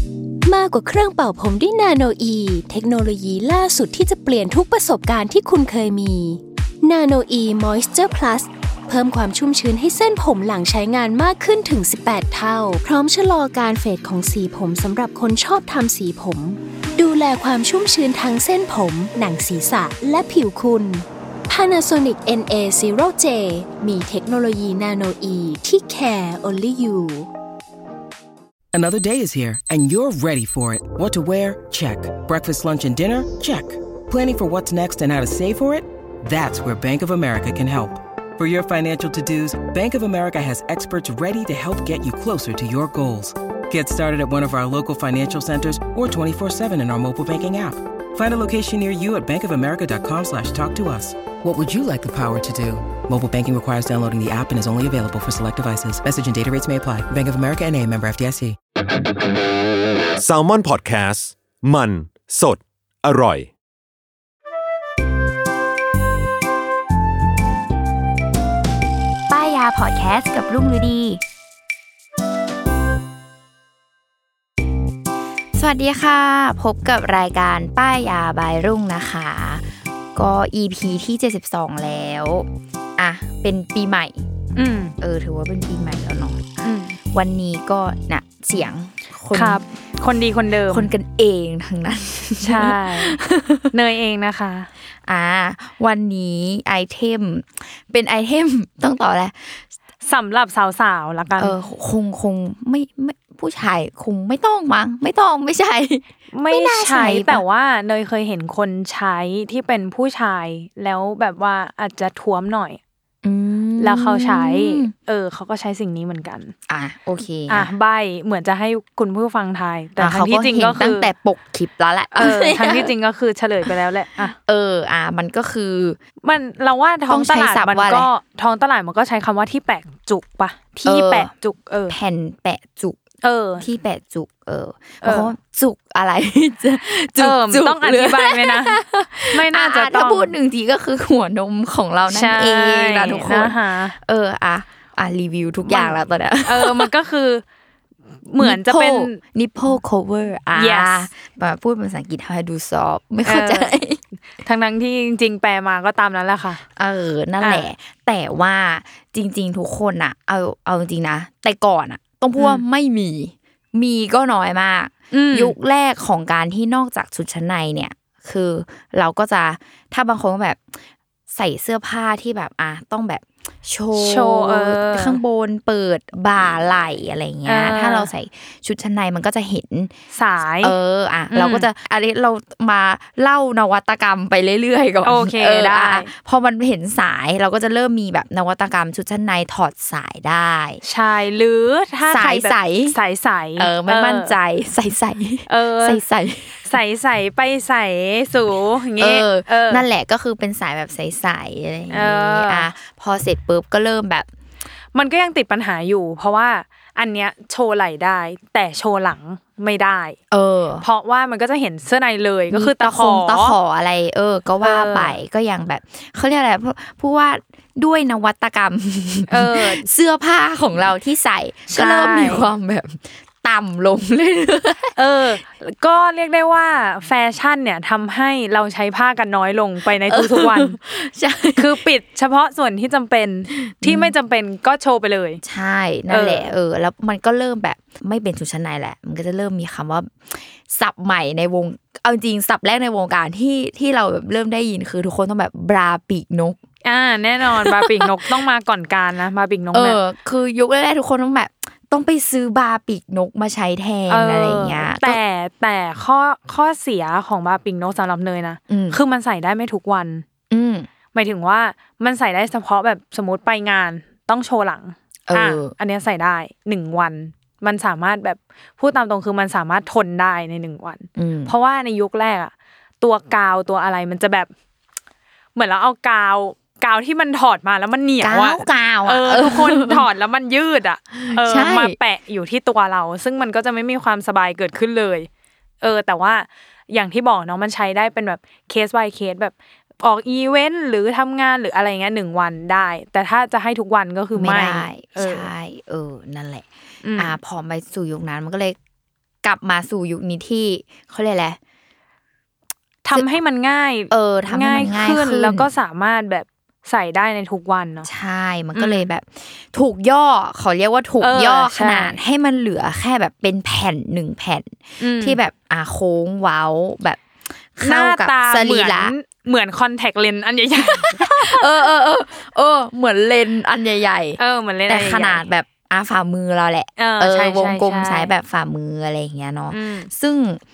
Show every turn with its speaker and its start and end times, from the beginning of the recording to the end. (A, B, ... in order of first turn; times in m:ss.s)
0:00.4-0:27.3 A
0:28.7-0:58.6 B
1:00.2-1:03.5 C
1:09.3-1:11.2 D
1:15.5-1:24.2 D
1:24.6-1:24.9 E
1:25.0-1:29.6 D
1:26.6-1:27.0 E
1:29.3-1:30.9 E
1:30.7-1:33.7 D
1:32.4-1:33.2 E
1:33.7-1:34.7 E
1:35.1-1:39.6 D
1:40.0-1:41.6 E
1:41.4-1:47.4 D
1:46.3-1:52.8 E
1:53.2-1:54.9 D
1:53.8-1:56.5 E
1:56.7-1:57.7 D
1:57.5-2:01.1 E
2:00.0-2:02.9 D
2:02.1-2:04.4 E
2:04.4-2:06.0 D
2:06.2-2:11.9 E
2:07.1-2:08.1 D
2:10.8-2:11.3 D
2:11.9-2:13.0 D
2:13.2-2:13.6 E
2:13.6-2:26.9 D
2:15.0-2:15.3 E
2:17.2-2:20.3 E
2:22.1-2:24.0 E
2:25.7-2:27.4 E
2:28.2-2:29.2 E
2:28.4-2:34.0 D
2:30.5-2:31.1 E
2:33.2-2:33.7 E
2:34.4-2:36.6 E
2:36.8-2:50.8 D
2:37.4-2:37.7 E
2:42.4-2:42.6 E
2:45.1-2:45.5 E
2:51.3-2:59.9 D
2:53.9-2:55.2 E
2:57.4-2:58.1 E
3:00.1-3:00.7 E
3:00.6-3:10.8 D
3:01.3-3:01.7 E
3:05.0-3:06.1 E
3:10.8-3:14.3 E
3:12.0-3:13.0 D
3:13.6-3:16.7 D
3:15.5-3:16.0 E
3:16.7-3:19.8 E
3:19.0-3:24.3 D
3:21.9-3:22.7 E
3:24.9-3:30.2 E
3:30.3-3:30.8 D
3:30.8-3:33.6 E
3:32.5-3:45.0 D
3:34.6-3:35.2 E
3:39.3-3:39.8 E
3:41.7-3:42.5 E
3:45.0-3:50.8 E
3:50.0-3:51.8 D
3:51.6-3:55.4 E
3:53.6-3:54.1 D
3:55.4-4:06.6 D
3:56.1-3:56.5 E
4:06.8-4:10.0 E
4:07.5-4:08.1 D
4:09.7-4:15.2 D
4:14.1-4:20.2 E
4:18.7-4:19.0 D
4:20.5-4:20.9 D
4:21.1-4:34.5 E
4:25.3-4:25.7 D
4:31.2-4:31.5 D
4:35.5-4:45.3 E
4:38.2-4:40.0 D
4:41.1-4:42.0 D
4:45.8-4:55.5 E
4:54.3-4:58.8 D
4:57.0-4:57.3 E
4:59.4-5:01.6 D
5:03.0-5:08.1 E
5:04.1-5:05.7 D
5:08.0-5:17.2 D
5:08.7-5:09.0 E
5:11.2-5:12.2 E
5:15.0-5:15.4 E
5:17.7-5:19.1 D
5:17.8-5:21.6 E
5:20.8-5:30.6 D
5:24.4-5:25.4 E
5:27.0-5:28.3 E
5:29.7-5:30.1 E